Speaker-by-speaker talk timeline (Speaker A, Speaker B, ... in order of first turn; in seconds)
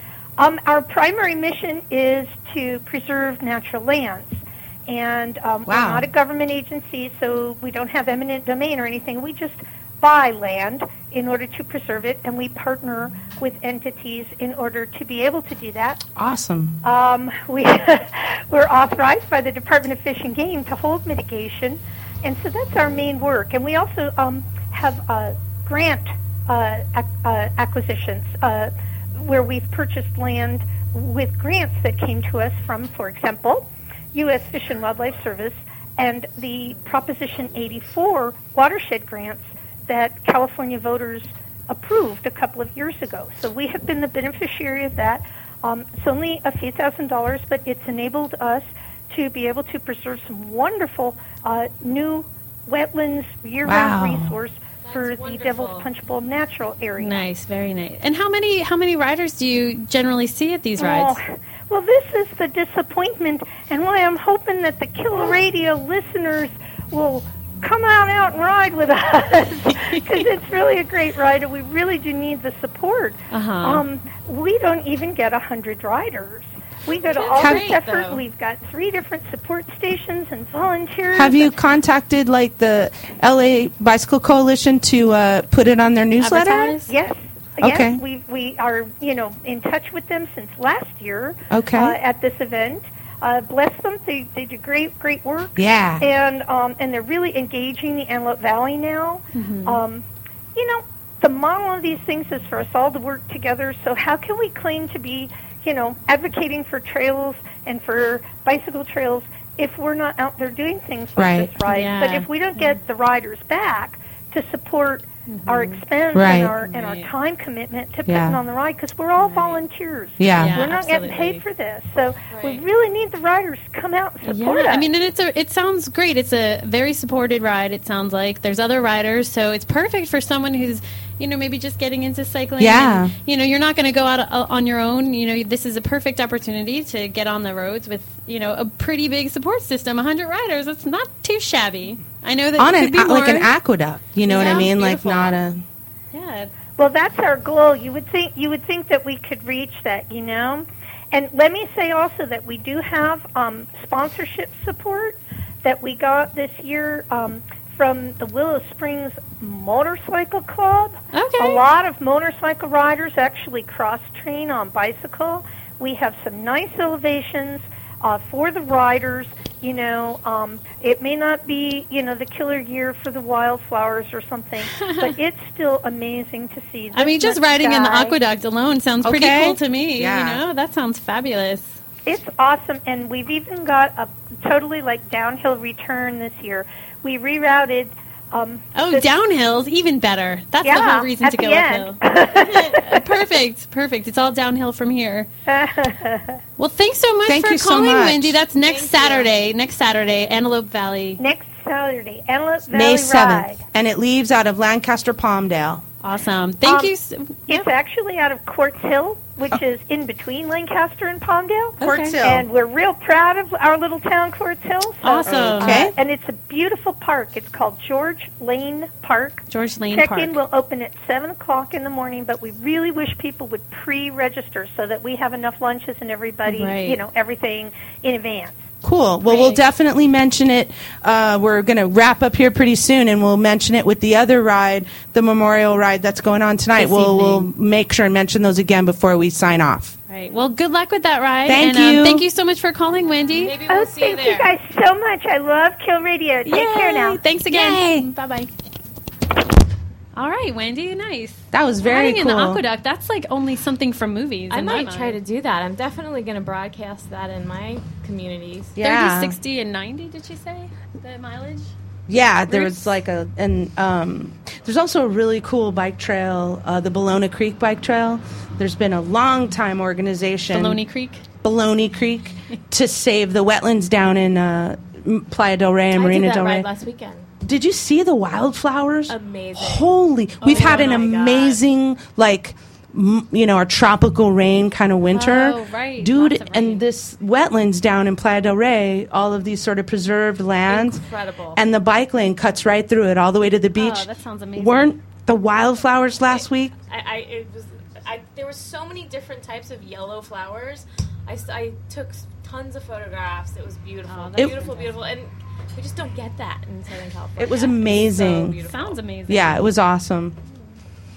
Speaker A: 0.4-16.0, 16.8-57.3, 60.8-81.5, 86.9-124.9, 144.3-144.7, 146.8-178.2, 182.1-189.1, 190.6-193.0, 195.5-196.4, 201.2-203.6, 206.6-206.9, 207.5-228.7, 243.7-247.2
Speaker B: 5.7-6.1, 16.2-16.8, 53.6-54.4, 77.4-77.7, 81.1-86.8, 87.6-88.0, 91.5-92.0, 95.6-96.0, 111.2-111.5, 116.1-116.5, 118.1-118.4, 120.2-120.6, 132.6-133.1, 142.6-145.6, 179.0-180.4, 197.3-198.4, 202.7-205.8, 211.8-212.5, 215.4-215.9, 228.8-240.0, 241.5-242.2, 247.5-248.1, 251.5-252.6, 258.8-259.4, 262.1-270.8, 271.4-276.7, 277.4-291.0, 291.6-296.7, 304.4-304.6, 307.4-308.6, 309.3-310.4
Speaker C: 54.8-55.9, 76.9-78.2, 122.3-122.6, 198.6-199.5, 243.3-244.6, 254.5-258.8, 275.9-277.3, 279.1-281.6, 290.7-291.6, 296.3-309.0
Speaker D: 57.0-61.2, 69.7-70.2, 73.3-73.8, 86.2-86.9, 99.3-99.8, 111.7-112.8, 115.3-117.1, 119.2-119.6, 120.4-121.4, 124.2-143.5, 144.3-145.4, 146.1-146.5, 161.1-161.6, 174.7-175.2, 176.9-181.8, 188.7-195.3, 196.6-201.2, 206.0-207.7, 211.8-212.2, 215.0-215.9, 219.5-220.4, 226.4-227.0, 229.2-229.6, 236.8-237.5, 240.1-243.6, 246.4-248.5, 250.2-255.2, 258.8-261.7, 262.5-262.9, 270.5-271.2, 280.4-281.0, 285.1-286.8, 293.8-294.9, 304.1-304.9, 308.6-309.6